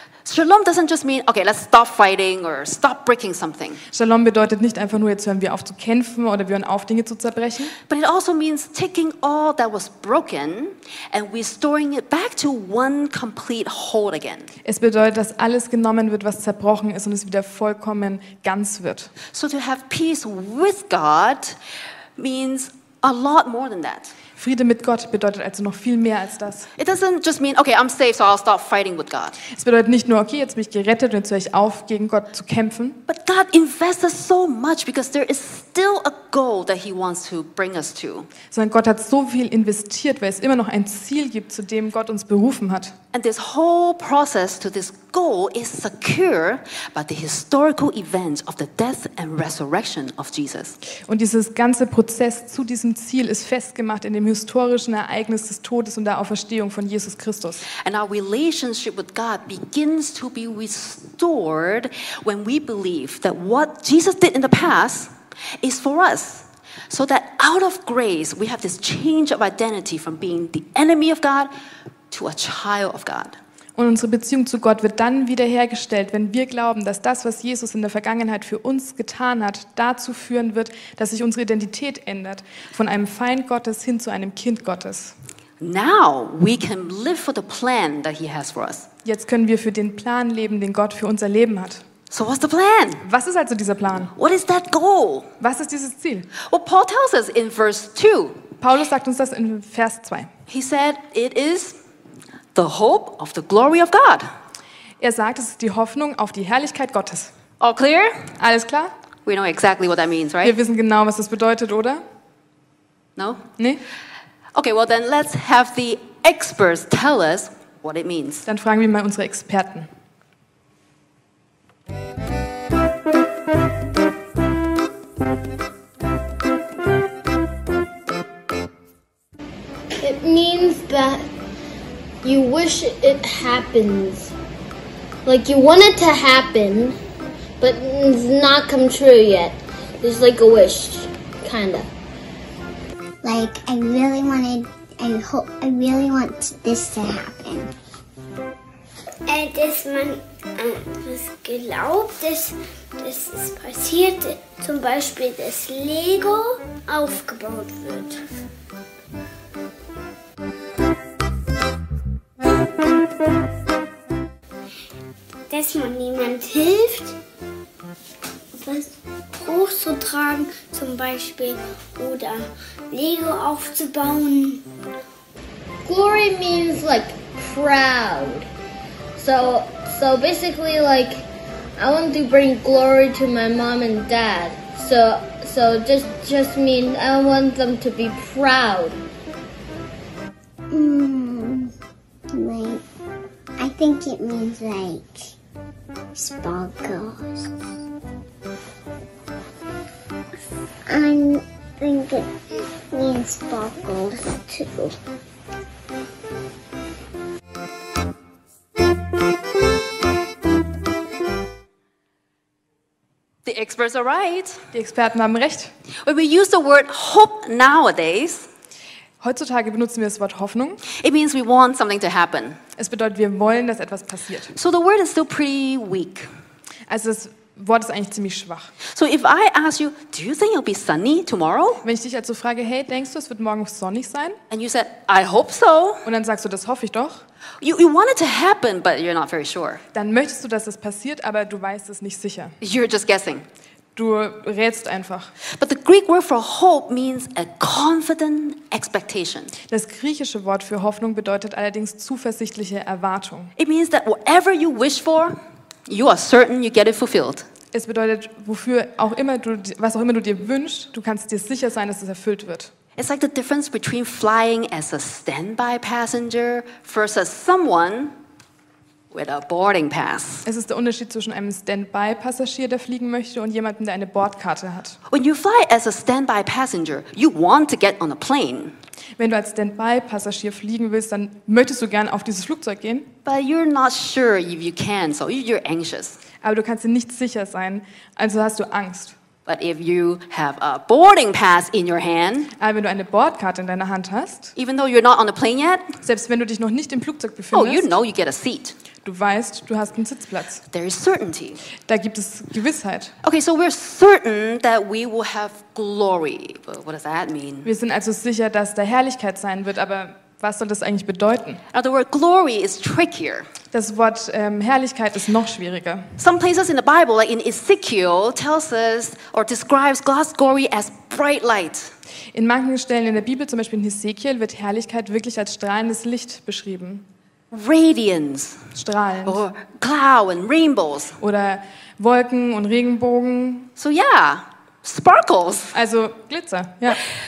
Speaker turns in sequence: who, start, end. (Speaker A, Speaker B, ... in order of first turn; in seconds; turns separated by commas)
Speaker A: 0.2-3.8, Speaker B: 3.9-7.7, Speaker A: 7.9-14.5, Speaker B: 14.6-19.1, Speaker A: 19.3-21.6, Speaker A: 22.2-24.1, Speaker B: 24.4-26.7, Speaker A: 26.8-29.4, Speaker B: 29.5-33.0, Speaker A: 33.1-38.3, Speaker B: 38.5-42.9, Speaker A: 43.1-50.8, Speaker B: 51.1-57.7, Speaker A: 57.8-71.5, Speaker A: 72.1-73.4, Speaker B: 73.8-85.1, Speaker A: 85.6-88.9, Speaker B: 89.0-91.8, Speaker A: 92.1-93.0, Speaker B: 93.0-94.1, Speaker A: 94.1-95.3, Speaker B: 95.4-96.3, Speaker A: 96.4-98.4, Speaker B: 98.6-100.3, Speaker A: 100.5-101.8, Speaker A: 102.5-104.2, Speaker B: 105.0-107.3, Speaker A: 107.6-108.3, Speaker B: 108.4-108.9, Speaker A: 109.2-110.6, Speaker B: 110.4-112.0, Speaker A: 113.2-113.5, Speaker A: 114.5-118.5, Speaker B: 118.5-119.9, Speaker C: 130.0-131.2, Speaker C: 132.2-134.3, Speaker C: 135.2-137.0, Speaker C: 137.6-141.9, Speaker D: 143.2-147.7, Speaker E: 149.3-158.2, Speaker E: 165.5-167.1, Speaker E: 168.6-174.6, Speaker C: 175.8-178.5, Speaker C: 179.2-181.2, Speaker C: 181.8-189.0, Speaker D: 190.7-191.7, Speaker D: 192.3-192.8, Speaker D: 193.6-195.3, Speaker D: 196.2-197.5, Speaker D: 200.9-202.3, Speaker D: 202.9-204.9, Speaker A: 213.4-214.7, Speaker B: 214.7-215.7, Speaker A: 216.0-218.5, Speaker B: 219.2-220.8, Speaker A: 220.9-222.6, Speaker B: 222.8-224.5, Speaker A: 224.5-226.3, Speaker B: 226.9-228.7, Speaker A: 228.9-231.8, Speaker B: 231.8-234.4, Speaker A: 234.5-236.0, Speaker B: 236.0-237.2, Speaker A: 237.6-239.8, Speaker B: 239.9-242.6, Speaker A: 242.6-243.5, Speaker B: 244.0-245.3, Speaker A: 245.5-249.5, Speaker B: 249.7-253.5, Speaker A: 253.6-257.5, Speaker B: 257.7-262.7, Speaker A: 263.0-268.1, Speaker A: 269.1-270.5, Speaker B: 270.5-275.0, Speaker A: 275.1-278.8, Speaker B: 279.2-283.1, Speaker A: 283.2-286.2, Speaker B: 286.4-289.1, Speaker A: 289.5-292.5, Speaker B: 292.6-294.5, Speaker A: 294.6-295.9, Speaker B: 296.0-297.9, Speaker A: 297.5-298.8, Speaker B: 299.0-300.6, Speaker A: 300.7-301.6, Speaker B: 301.9-303.1, Speaker A: 303.2-307.7, Speaker B: 307.6-311.6, Speaker A: 311.7-313.5, Speaker B: 313.7-316.1, Speaker A: 316.2-321.9, Speaker B: 322.3-327.0, Speaker A: 327.5-328.6, Speaker B: 328.8-329.4, Speaker A: 329.2-331.2, Speaker B: 331.2-333.7, Speaker A: 333.8-335.8, Speaker B: 335.7-337.0